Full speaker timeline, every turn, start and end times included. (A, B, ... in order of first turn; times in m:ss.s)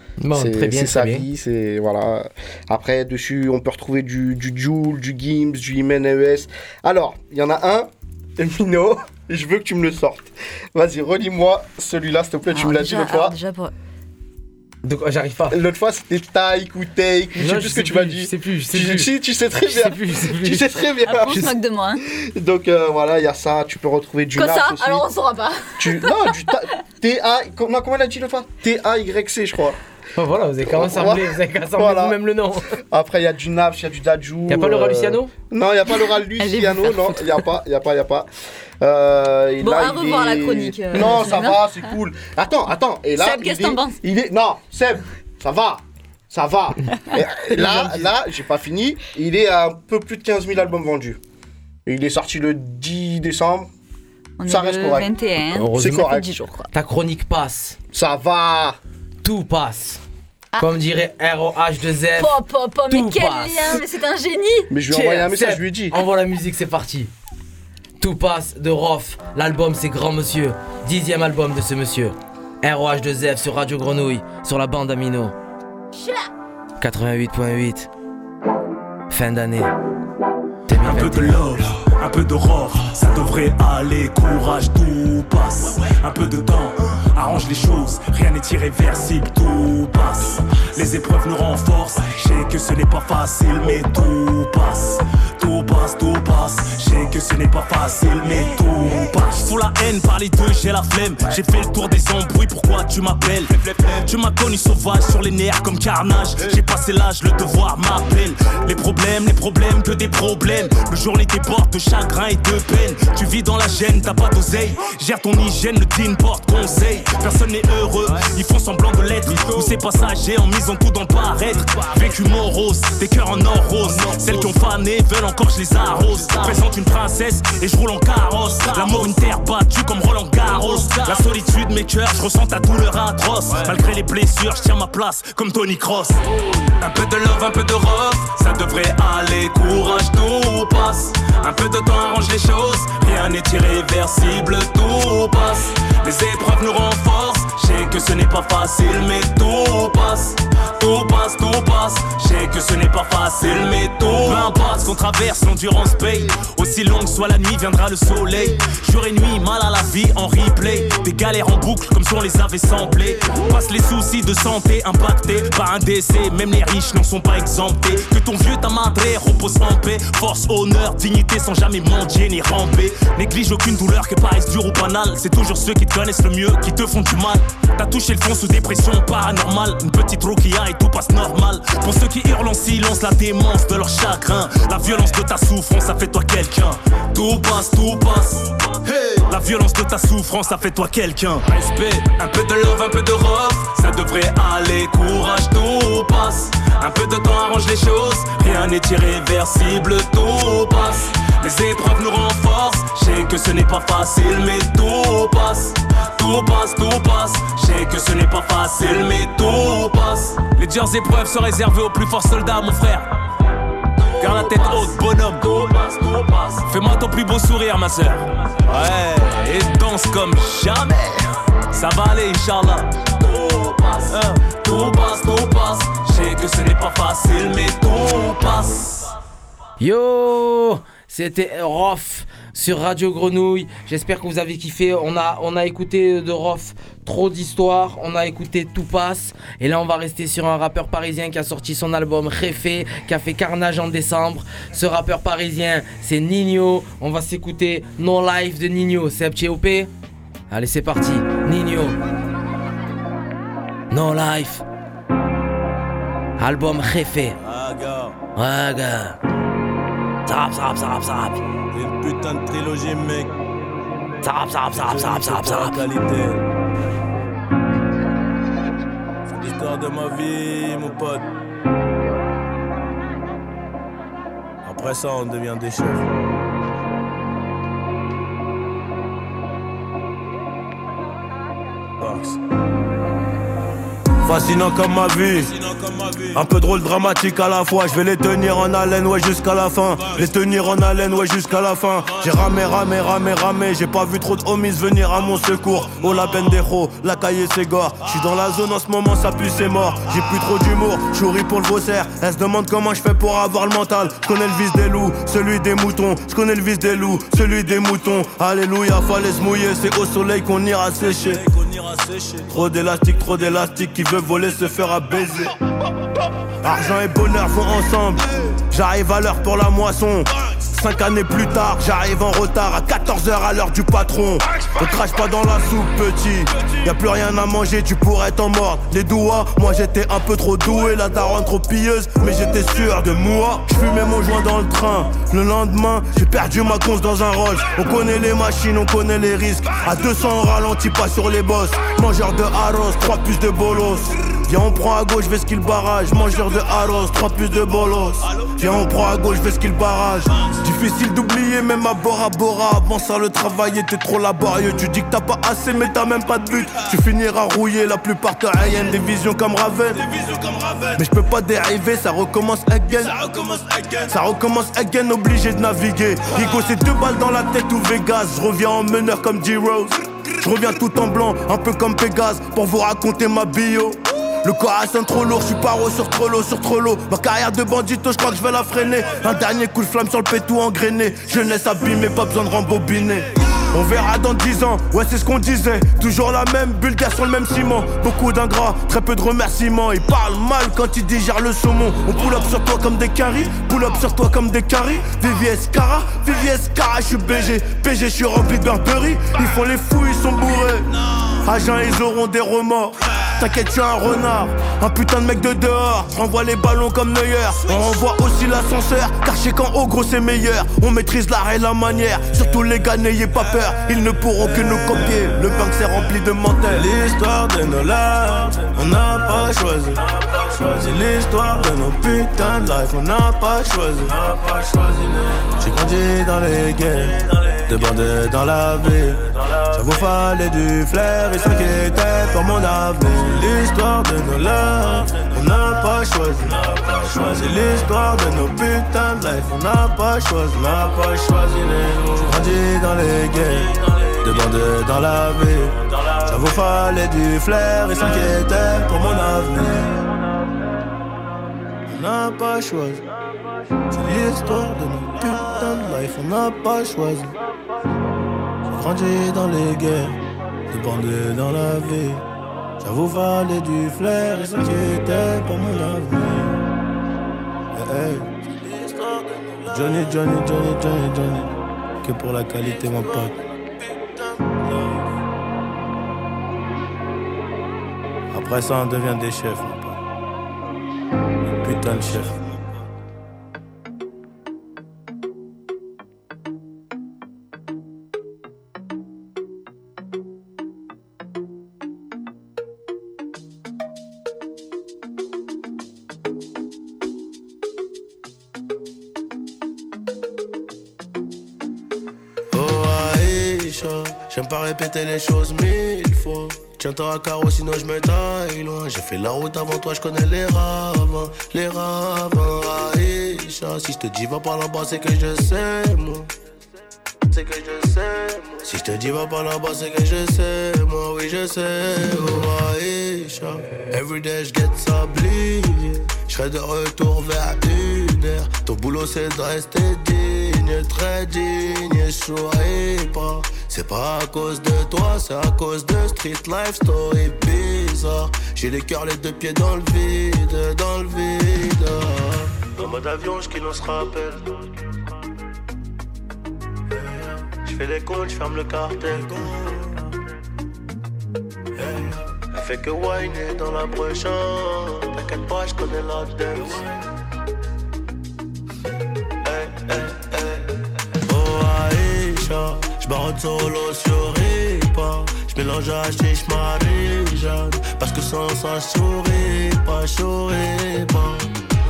0:00.2-0:01.2 A
0:00.3-0:13.3 B
0:12.5-0:13.7 C
0:14.8-0:15.6 A
0:15.5-0:21.5 B
0:17.4-0:19.1 A
0:19.7-0:20.7 A
0:21.1-0:22.0 C
0:21.2-0:21.5 A
0:22.1-0:25.1 B
0:24.3-0:26.3 C
0:25.8-0:29.8 B
0:30.2-0:32.7 A
0:30.6-0:32.2 B
0:32.9-0:38.3 B
0:34.5-0:35.3 A
0:35.8-0:37.4 C
0:38.8-0:51.2 B
0:39.6-0:41.9 C
0:43.2-0:44.0 C
0:47.5-0:48.0 A
0:51.8-0:53.7 B
0:54.4-0:56.7 C
0:54.5-0:55.1 B
0:55.5-0:56.1 A
0:55.7-0:56.3 B
0:56.7-0:57.8 A
0:57.9-0:58.8 B
0:59.2-1:00.0 A
1:00.6-1:03.8 A
1:02.2-1:04.7 C
1:04.7-1:06.0 B
1:04.9-1:07.1 A
1:08.0-1:15.3 A
1:16.8-1:17.9 A
1:19.1-1:19.7 A
1:20.7-1:21.5 A
1:20.7-2:16.2 D
2:16.8-3:33.1 D
3:34.2-3:49.1 D
3:49.8-4:09.9 A
4:10.5-4:12.0 A
4:13.9-4:14.6 A
4:16.4-4:17.4 A
4:17.4-4:18.2 E
4:18.4-4:19.2 A
4:20.3-4:21.4 A
4:21.7-4:23.4 E
4:24.1-4:26.4 E
4:24.2-4:25.8 A
4:29.3-4:31.2 E
4:34.6-4:36.0 E
4:42.0-4:42.3 E
4:44.2-5:15.5 E
5:16.6-6:40.9 E
6:41.4-7:30.1 E
7:31.9-7:33.0 E
7:33.9-7:37.4 E
7:38.7-7:40.2 E
7:40.7-7:42.2 E
7:42.8-7:46.6 E
7:47.7-7:54.7 E
7:58.3-8:00.0 E
8:01.6-8:02.5 E
8:22.5-8:36.3 E
8:37.3-9:04.6 E
9:07.5-9:09.9 E
9:11.8-9:16.9 E
9:19.4-9:20.6 E
9:21.2-9:31.5 E